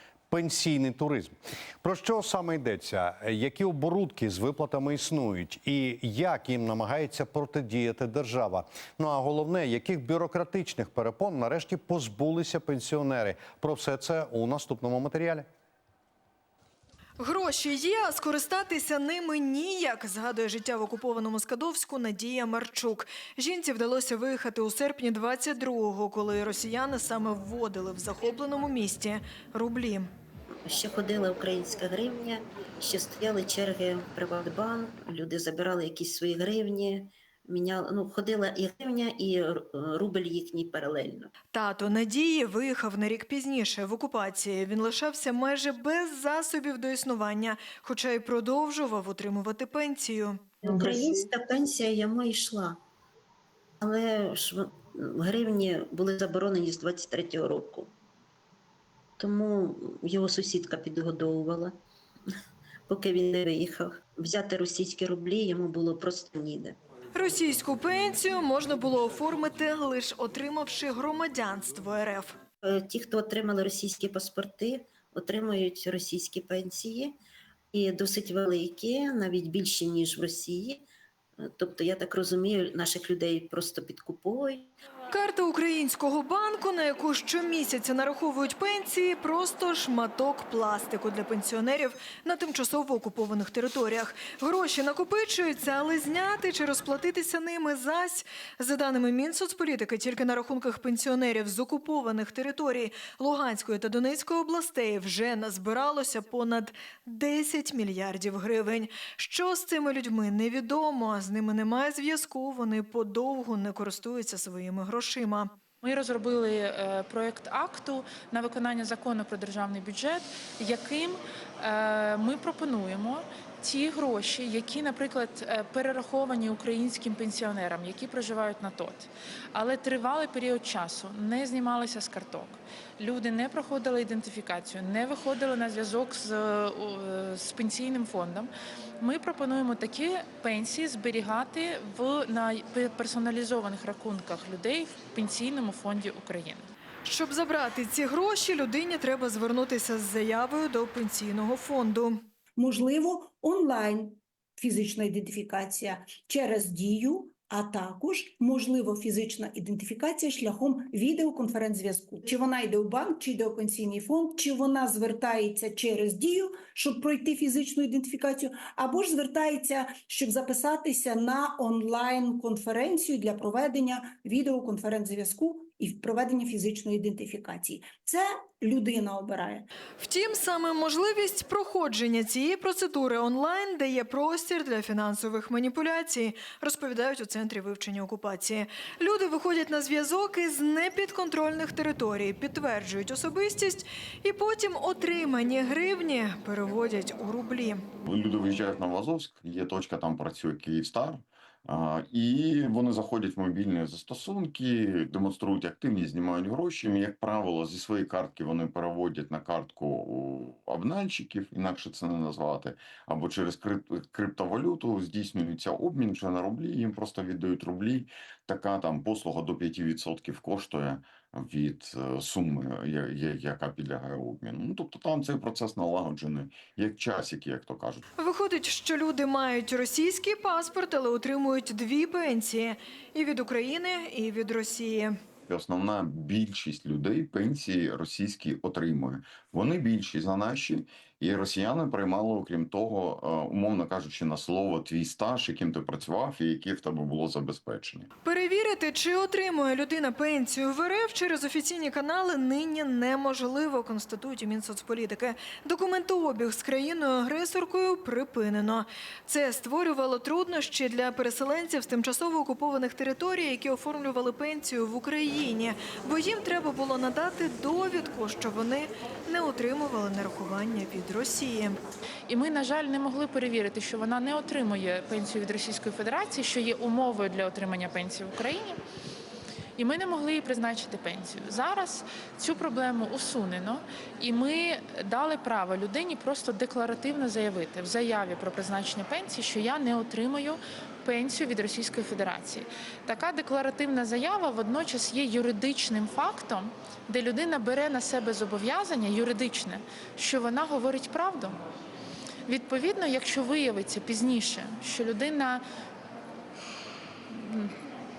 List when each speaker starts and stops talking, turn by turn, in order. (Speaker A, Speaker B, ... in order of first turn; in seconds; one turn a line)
Speaker A: 0.3-15.4
Speaker B: 17.2-30.1
Speaker C: 30.6-41.3
Speaker B: 41.5-50.4
Speaker C: 50.6-52.8
Speaker C: 53.8-57.9
Speaker C: 59.2-61.8
Speaker C: 62.9-66.8
Speaker B: 67.1-72.3
Speaker C: 72.6-77.2
Speaker C: 77.7-80.8
Speaker C: 81.4-84.7
Speaker B: 85.1-115.5
Speaker D: 115.8-146.7
Speaker B: 147.0-152.2
Speaker E: 152.6-179.7
Speaker B: 180.0-197.8
Speaker F: 198.0-228.0
Speaker B: 228.2-235.1
Speaker F: 235.5-248.1
Speaker B: 248.2-271.8
Speaker D: 272.3-278.8
Speaker D: 279.8-301.6
Speaker D: 302.5-305.6
Speaker D: 307.3-307.7